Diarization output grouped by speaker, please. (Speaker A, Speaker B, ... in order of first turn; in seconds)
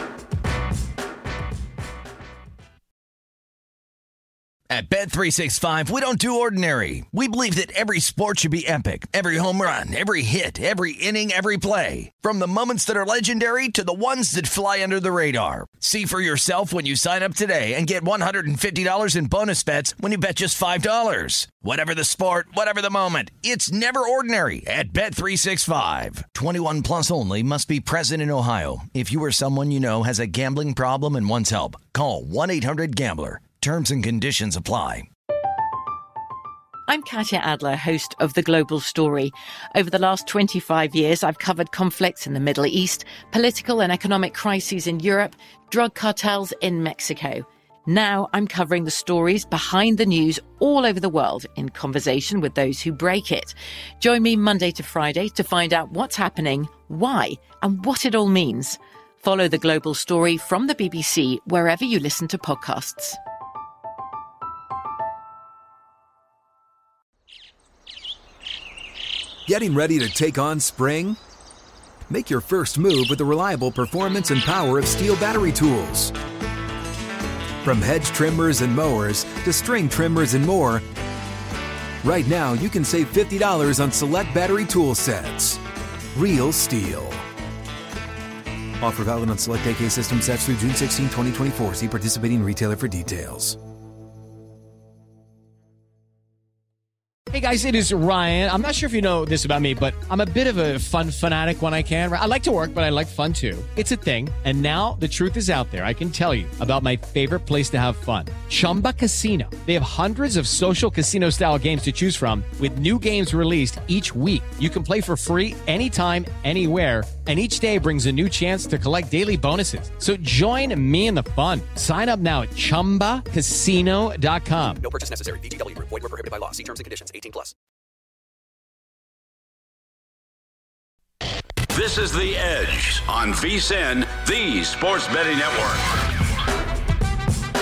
Speaker A: 4.7-35.1
Speaker B: 36.9-63.2
Speaker C: 69.5-71.2, 72.1-76.1, 77.6-80.8, 82.0-85.6, 86.1-87.2, 88.8-93.6
Speaker D: 97.3-124.8
Speaker E: 124.8-127.5
Speaker F: 131.7-136.1